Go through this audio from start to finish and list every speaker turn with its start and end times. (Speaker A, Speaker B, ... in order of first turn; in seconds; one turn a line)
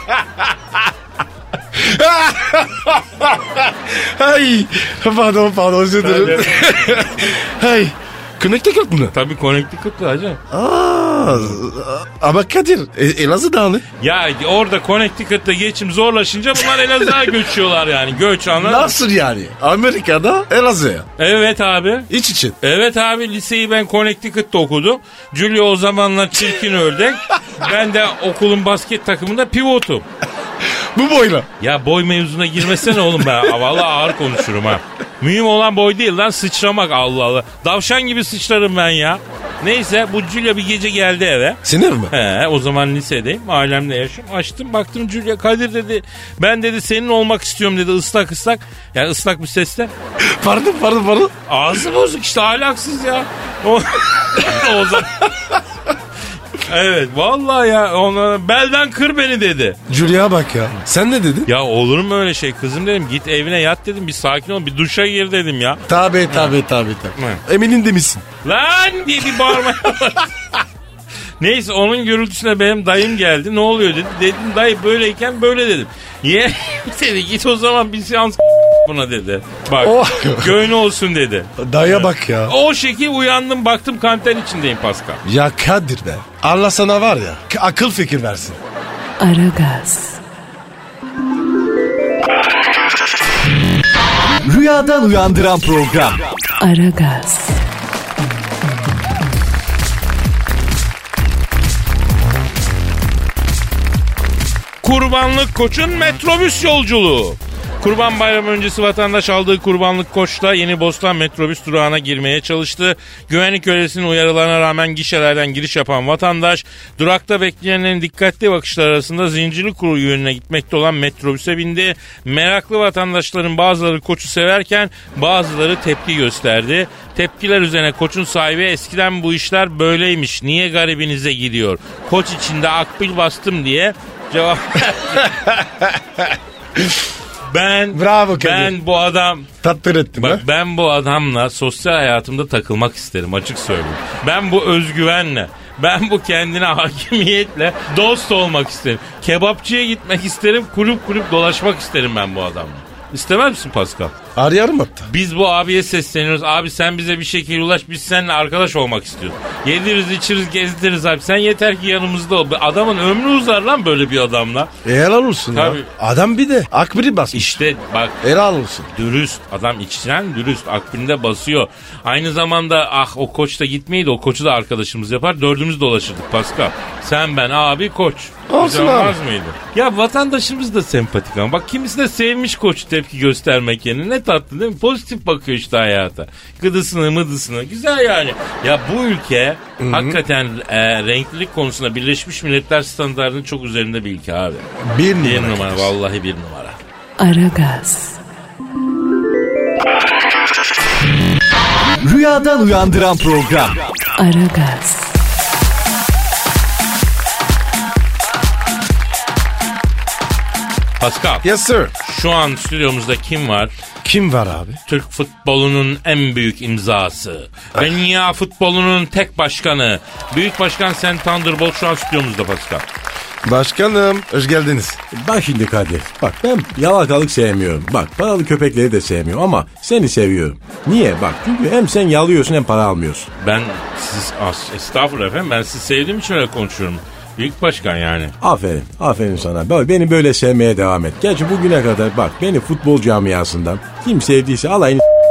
Speaker A: 1.8-9.1
Speaker B: 6.0-7.2
Speaker B: 9.1-10.4
Speaker A: 10.5-13.8
Speaker B: 14.0-19.0
Speaker A: 18.6-21.1
Speaker B: 21.2-22.1
Speaker A: 22.1-22.6
Speaker B: 22.6-30.1
Speaker A: 30.9-31.5
Speaker B: 31.6-49.9
Speaker A: 41.6-42.1
Speaker A: 50.2-51.3
Speaker B: 51.5-55.3
Speaker B: 56.6-59.8
Speaker A: 59.9-61.5
Speaker B: 61.5-66.5
Speaker A: 65.9-68.2
Speaker B: 67.2-67.4
Speaker B: 68.4-70.3
Speaker B: 71.4-85.2
Speaker A: 79.8-80.5
Speaker A: 81.6-82.5
Speaker A: 85.2-88.6
Speaker C: 89.2-90.2
Speaker D: 94.5-96.2
Speaker C: 96.6-97.6
Speaker B: 104.8-135.4
Speaker B: 137.5-139.5
Speaker A: 137.9-138.7
Speaker A: 139.6-140.4
Speaker B: 140.2-154.2
Speaker A: 154.3-155.1
Speaker B: 155.1-164.7
Speaker A: 164.8-167.5
Speaker B: 165.5-165.9
Speaker B: 167.3-168.2
Speaker A: 168.2-168.9
Speaker B: 168.9-194.7
Speaker A: 178.5-179.2
Speaker A: 189.8-190.2
Speaker A: 194.8-195.9
Speaker B: 195.2-196.8
Speaker C: 197.2-198.2
Speaker D: 202.0-203.8
Speaker C: 204.2-205.1
Speaker B: 211.0-211.4
Speaker A: 211.4-211.9
Speaker B: 212.0-213.7
Speaker A: 214.0-214.8
Speaker B: 214.9-222.8
Speaker A: 223.4-225.0
Speaker E: 225.1-233.3
Speaker B: 233.4-238.3
Speaker E: 238.4-245.0